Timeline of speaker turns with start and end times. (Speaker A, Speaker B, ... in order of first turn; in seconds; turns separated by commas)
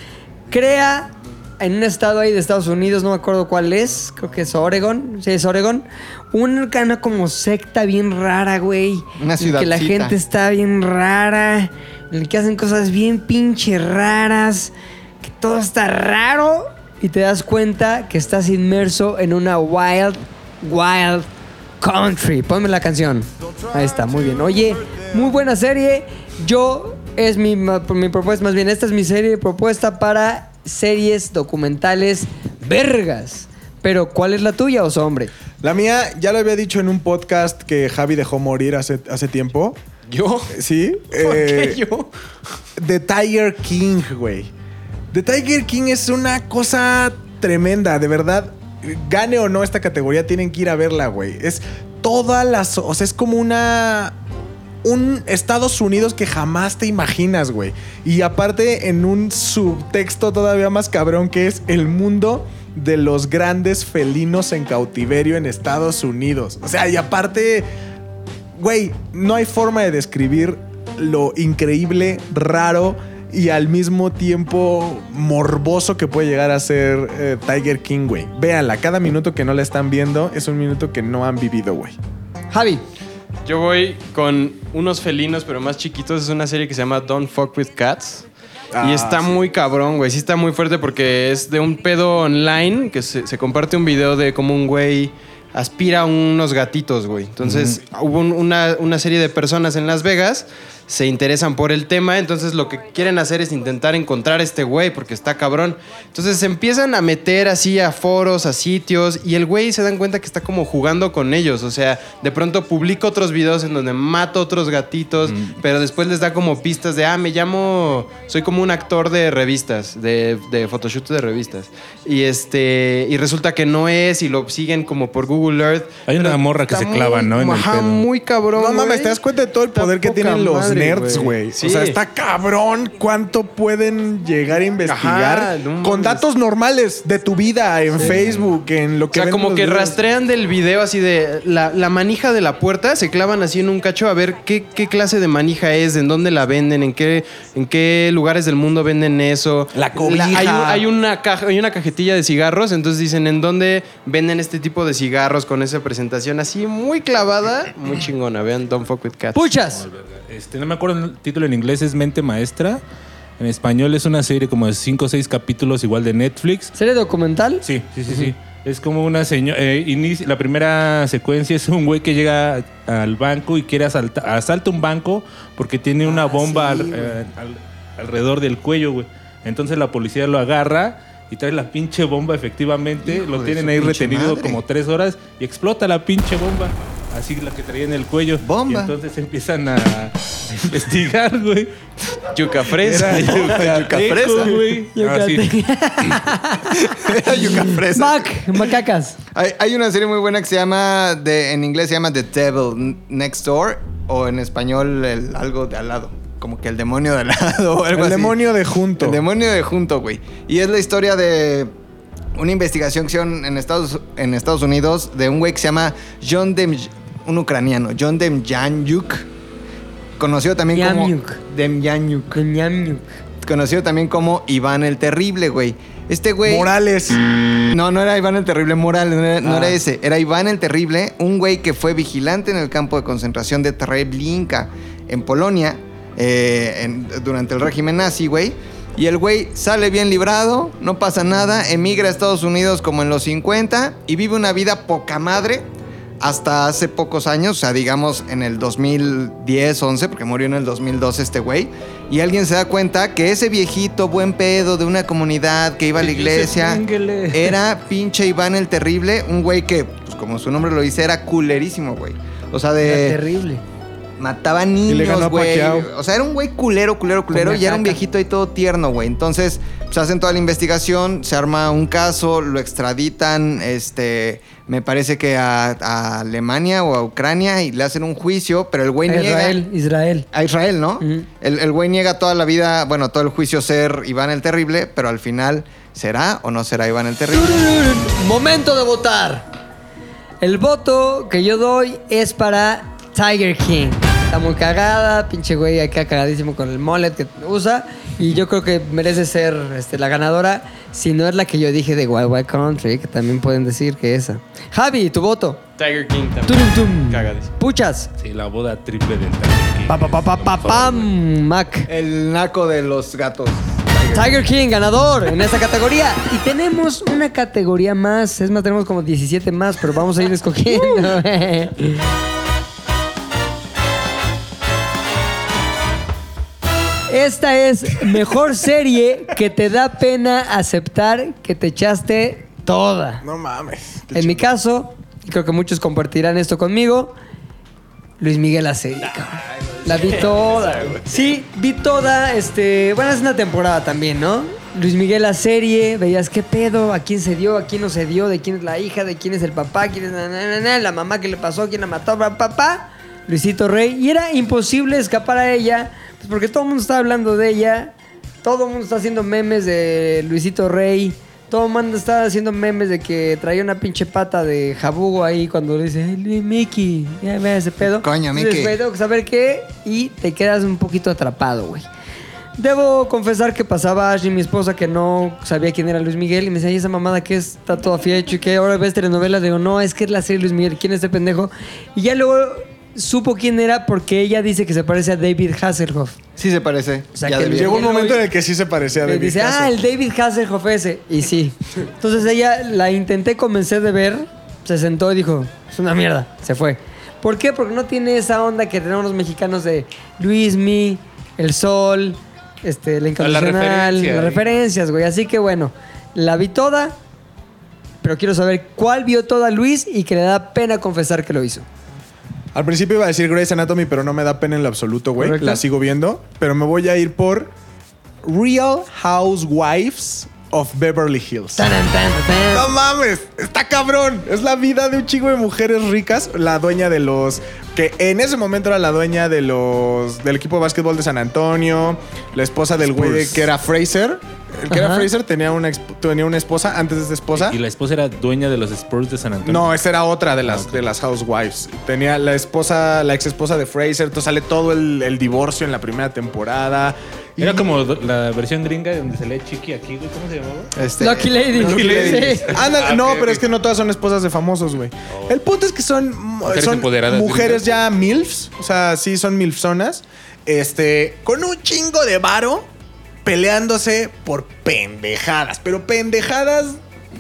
Speaker A: 0.5-21.3, Speaker B: 9.2-10.1, Speaker A: 21.8-35.3, Speaker C: 35.6-39.8, Speaker D: 40.1-40.5, Speaker C: 40.5-41.8, Speaker D: 41.2-42.1, Speaker C: 42.8-44.5, Speaker C: 45.1-54.2, Speaker C: 54.8-67.7, Speaker C: 68.6-82.0, Speaker A: 82.5-82.8, Speaker D: 83.5-88.3, Speaker C: 88.7-89.4, Speaker D: 88.8-129.2, Speaker E: 97.4-97.8, Speaker E: 115.3-115.6, Speaker E: 126.1-128.1, Speaker C: 128.6-140.0, Speaker D: 129.7-132.0, Speaker D: 134.8-136.2, Speaker D: 137.9-138.2, Speaker E: 138.0-138.4, Speaker D: 139.1-159.5, Speaker C: 149.7-150.9, Speaker A: 159.3-159.8, Speaker E: 159.8-162.8, Speaker E: 163.4-166.7, Speaker A: 166.8-168.3, Speaker E: 167.6-191.7, Speaker A: 176.0-177.2, Speaker B: 183.1-184.6, Speaker B: 188.4-188.9, Speaker D: 192.3-193.6, Speaker E: 192.8-195.5, Speaker C: 192.9-194.3, Speaker B: 193.1-194.6, Speaker A: 194.9-199.2, Speaker B: 196.8-198.7, Speaker B: 199.3-211.7, Speaker C: 207.9-209.2, Speaker B: 212.4-219.3, Speaker B: 220.2-222.4, Speaker A: 220.7-221.4, Speaker A: 222.3-223.1, Speaker B: 223.4-226.7, Speaker C: 226.4-227.2, Speaker B: 227.7-245.7, Speaker B: 246.2-263.2, Speaker E: 256.0-257.6, Speaker A: 262.8-263.6, Speaker B: 264.2-279.6, Speaker C: 264.9-265.9, Speaker A: 267.3-268.0, Speaker A: 279.1-280.3, Speaker B: 280.3-287.7, Speaker A: 281.0-281.3, Speaker A: 287.3-289.5, Speaker A: 290.4-305.6, Speaker D: 305.8-307.5, Speaker A: 306.5-308.1, Speaker E: 308.2-311.1, Speaker A: 309.9-311.9, Speaker B: 311.9-314.4, Speaker A: 314.1-322.0, Speaker A: 327.1-333.2, Speaker C: 333.2-334.5, Speaker A: 334.1-337.1, Speaker A: 338.2-371.9, Speaker B: 368.0-368.8, Speaker A: 372.6-386.2, Speaker B: 386.4-387.9, Speaker A: 387.1-388.2, Speaker C: 387.5-389.8, Speaker A: 389.1-407.0, Speaker E: 403.2-404.5, Speaker A: 408.0-411.7, Speaker C: 412.5-417.5, Speaker A: 415.2-415.6, Speaker C: 418.2-421.7, Speaker A: 421.6-422.7, Speaker C: 422.5-437.6, Speaker E: 432.8-433.5, Speaker A: 434.7-435.1, Speaker E: 437.4-439.8, Speaker C: 439.4-447.8, Speaker E: 440.5-440.8, Speaker E: 447.4-450.7, Speaker B: 450.8-452.4, Speaker A: 451.0-452.6, Speaker E: 451.6-453.4, Speaker C: 451.8-462.7, Speaker E: 456.5-457.6, Speaker C: 463.2-466.8